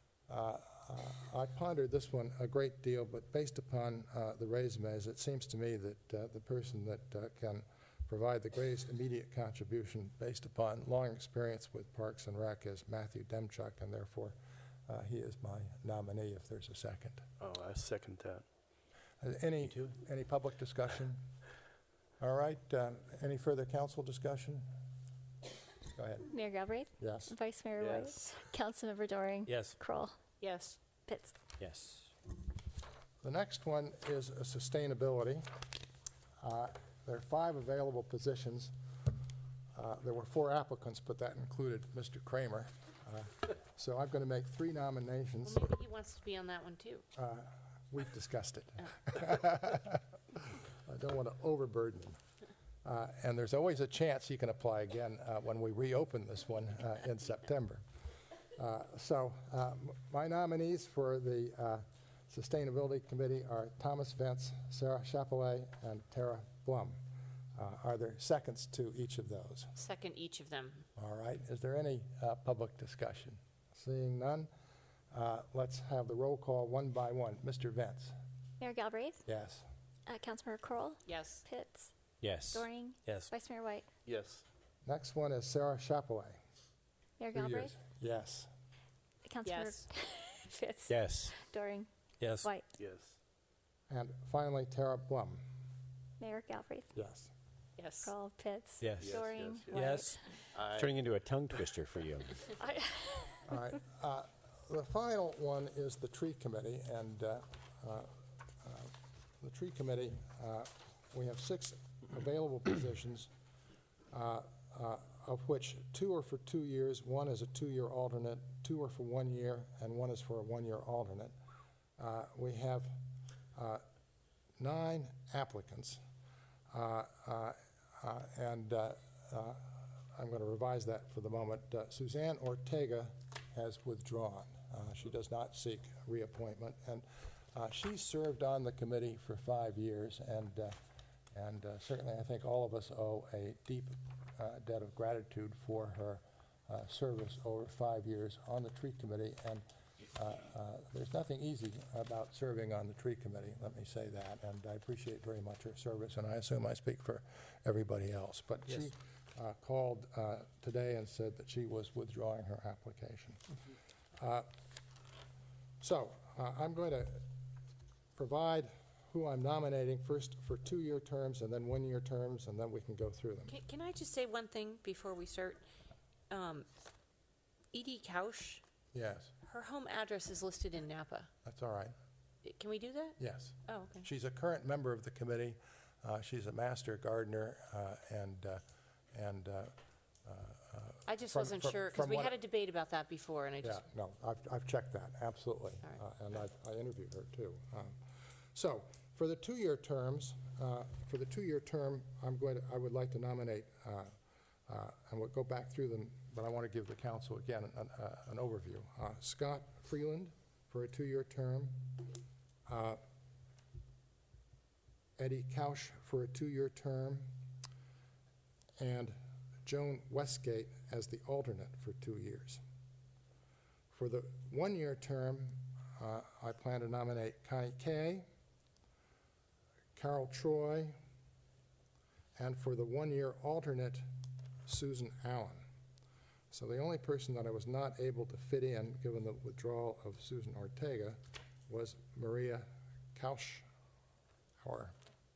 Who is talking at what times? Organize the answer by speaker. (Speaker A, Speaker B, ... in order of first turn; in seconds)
Speaker A: 0.3-14.3, 14.9-17.2, 19.2-21.2, 22.2-24.6, 25.9-26.3, 27.0-27.3, 33.2-35.4, 36.4-38.7, 39.7-45.7, 47.1-50.0, 50.5-52.2, 52.8-57.8, 58.5-67.0, 67.6-69.7, 71.0-74.5, 75.1-78.1, 79.2-79.7, 84.8-86.4, 87.3-88.5, 93.9-95.4, 96.9-97.3, 103.5-113.3, 114.1-121.3, 122.0-122.9, 123.5-123.8, 124.6-126.0, 126.7-140.8, 141.3-163.4, 164.2-164.5, 165.8-167.2, 168.2-173.6, 178.9-179.3, 181.4-181.9, 183.2-188.6, 189.1-192.3, 193.6-198.0, 198.5-204.1, 204.7-211.8, 212.7-213.0, 215.2-217.3, 218.8-222.6, 223.9-228.3, 229.9-231.0, 232.4-234.0, 234.7-235.6, 236.5-243.7, 244.6-244.9
Speaker B: 17.4-18.4, 27.8-28.4, 84.0-84.4, 92.8-93.2, 99.0-100.0, 100.5-100.9
Speaker C: 26.3-30.1, 31.1-31.4, 78.6-79.2, 80.1-81.9, 82.5-83.8, 87.2-87.8, 89.2-91.9, 92.4-92.7, 96.2-96.9, 98.0-100.5, 102.6-103.6
Speaker D: 29.5-29.8, 31.6-32.1, 82.2-83.3, 90.9-91.3, 92.2-92.5, 98.8-100.1, 100.7-102.4
Speaker E: 30.4-30.8, 45.4-47.0, 69.8-70.8, 81.0-81.4, 89.4-89.9, 97.8-98.1, 173.5-175.6, 176.3-176.7, 177.7-178.6, 179.4-181.3, 182.4-184.1, 191.1-193.8